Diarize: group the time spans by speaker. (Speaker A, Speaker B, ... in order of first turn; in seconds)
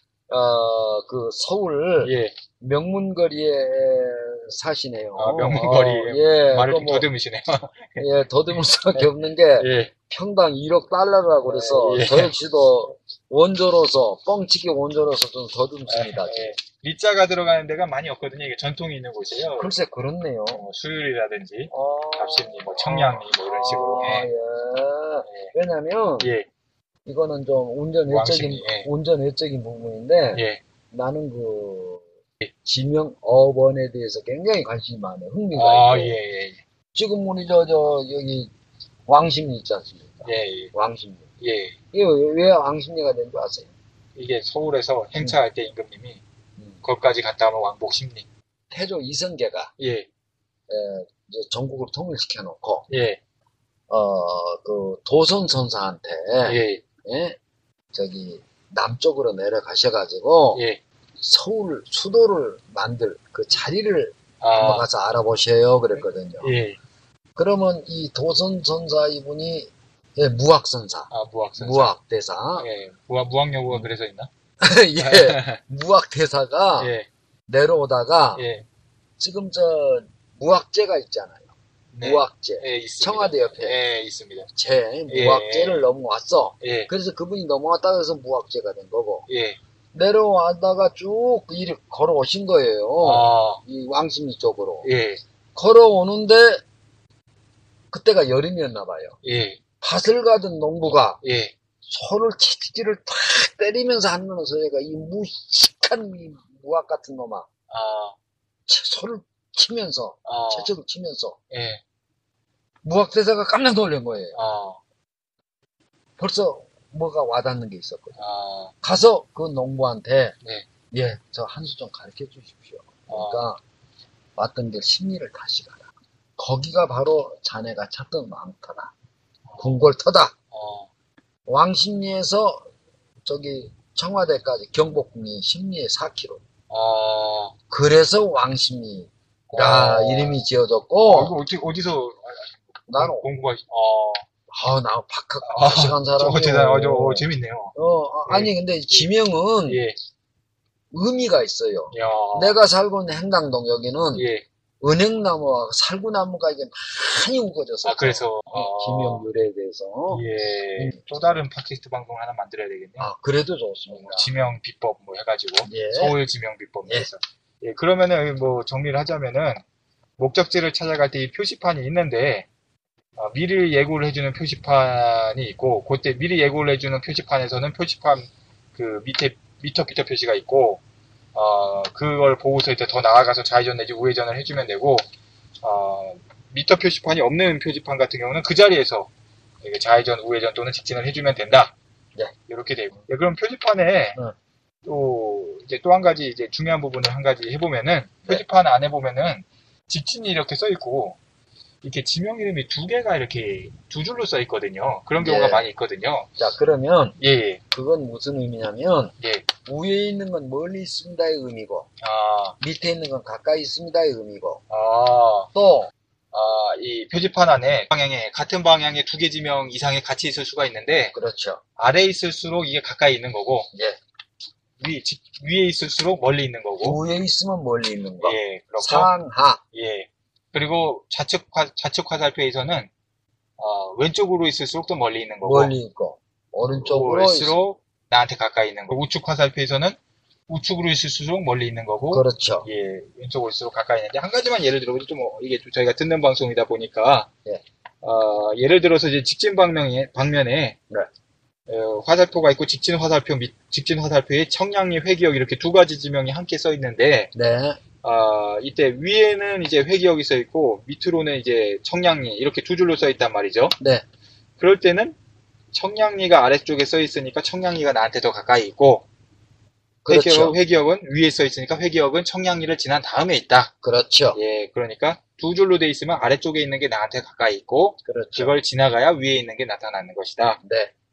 Speaker A: 0.3-7.1, 8.0-16.5, 19.6-20.7, 21.7-26.3, 27.1-32.0, 32.6-36.2, 36.9-38.5, 39.1-41.2, 41.9-43.7, 48.7-49.7, 50.7-52.9, 53.9-57.4, 57.9-60.6, 61.2-66.5, 67.4-72.7, 74.6-76.9, 77.5-78.5, 79.2-83.8, 84.5-89.3, 89.9-94.9, 95.5-96.6, 97.9-99.2, 99.8-101.2, 101.9-107.5, 108.7-111.4, 112.8-114.4, 116.2-118.2, 118.8-120.3, 120.9-123.6, 124.4-128.9, 129.6-130.3, 131.5-132.7, 133.2-136.4, 137.7-141.4, 142.9-143.3, 144.5-149.8, 150.9-154.3, 154.8-161.4, 163.0-164.3, 165.6-166.2, 205.2-205.7, 206.4-207.2, 207.7-209.1, 209.7-211.9, 212.6-214.6, 215.5-215.9, 221.1-221.6, 226.8-229.6, 235.4-237.6, 242.1-242.7, 257.4-257.8, 263.8-264.0, 270.1-270.6, 273.8-274.4, 278.1-278.6, 280.6-280.9
Speaker B: 2.0-2.4, 5.2-8.1, 8.9-9.9, 11.4-12.3, 15.9-19.8, 20.5-24.3, 25.3-25.5, 26.2-26.5, 28.1-28.9, 30.3-30.6, 35.5-36.6, 40.2-40.7, 41.4-41.8, 44.2-46.2, 46.8-48.3, 49.8-50.1, 52.9-53.2, 56.5-56.8, 60.5-60.8, 64.4-64.9, 66.0-66.8, 71.1-71.9, 72.6-74.3, 75.0-75.6, 76.8-77.1, 78.4-78.7, 81.9-84.5, 85.1-85.8, 86.6-86.9, 89.3-89.6, 93.0-93.6, 94.8-95.2, 99.2-99.6, 101.2-101.5, 107.7-108.2, 110.2-110.7, 111.5-111.8, 114.3-114.8, 118.2-118.7, 123.1-123.5, 129.5-129.8, 130.5-130.9, 136.7-137.6, 139.5-140.4, 141.1-144.2, 145.4-147.7, 148.3-149.1, 149.7-150.0, 151.9-152.6, 154.1-154.4, 157.8-159.3, 160.1-163.1, 163.9-169.6, 170.2-172.5, 173.2-180.8, 181.3-185.1, 185.6-189.1, 189.6-191.7, 192.5-194.2, 194.8-201.2, 201.8-206.3, 207.2-207.6, 209.2-209.5, 212.0-212.6, 214.7-215.5, 216.3-221.2, 221.8-223.7, 224.8-227.0, 228.2-229.1, 229.7-232.9, 233.6-235.7, 236.7-240.0, 240.5-247.3, 248.0-250.8, 251.7-257.3, 258.0-263.8, 264.6-265.1, 265.7-269.1, 270.1-273.7, 274.3-280.6